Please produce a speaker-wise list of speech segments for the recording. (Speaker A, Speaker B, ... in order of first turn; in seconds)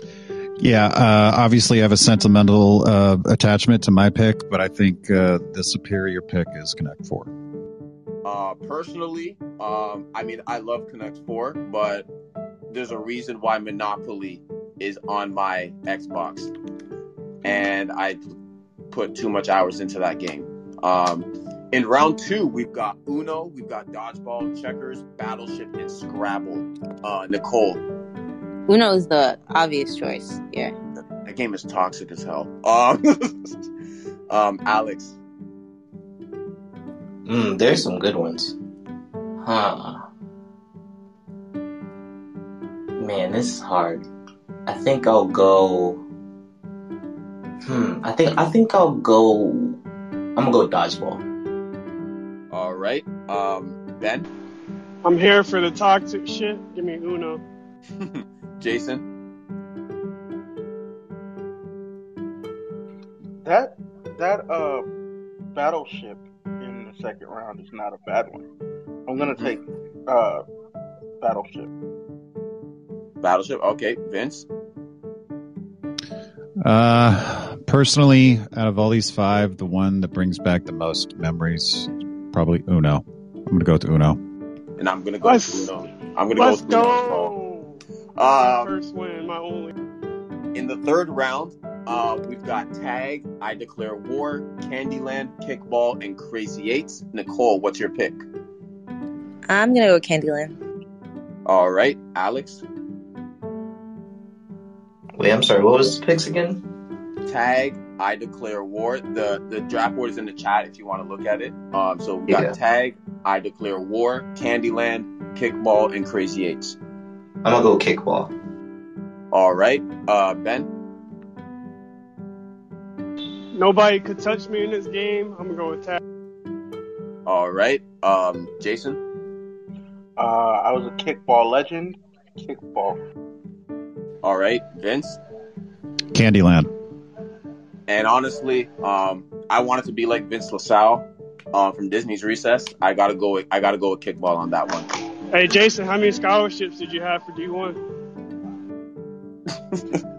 Speaker A: 0.6-7.3, 76.6-84.2, 136.1-136.7
Speaker B: 8.2-12.1, 12.7-16.5, 17.4-18.2, 18.9-27.8, 31.2-33.6, 34.3-35.2, 52.5-54.3, 58.0-59.0, 73.2-74.5, 84.8-87.3, 88.2-88.7, 90.5-98.2, 101.5-102.6, 107.3-116.8, 119.3-120.7, 127.3-129.0, 134.2-135.2, 137.9-144.9
Speaker C: 28.7-30.8, 99.5-100.6
Speaker D: 37.2-38.5, 39.4-40.0, 43.0-44.1, 44.7-46.0, 47.6-49.8, 50.4-51.2, 105.2-106.6, 112.3-112.5, 117.4-118.3
Speaker E: 55.0-57.4, 85.2-85.7, 86.4-87.8, 88.6-89.7, 123.5-126.0, 145.3-147.8
Speaker F: 63.4-64.9, 65.5-68.4, 69.1-70.4, 71.2-71.7, 130.2-133.0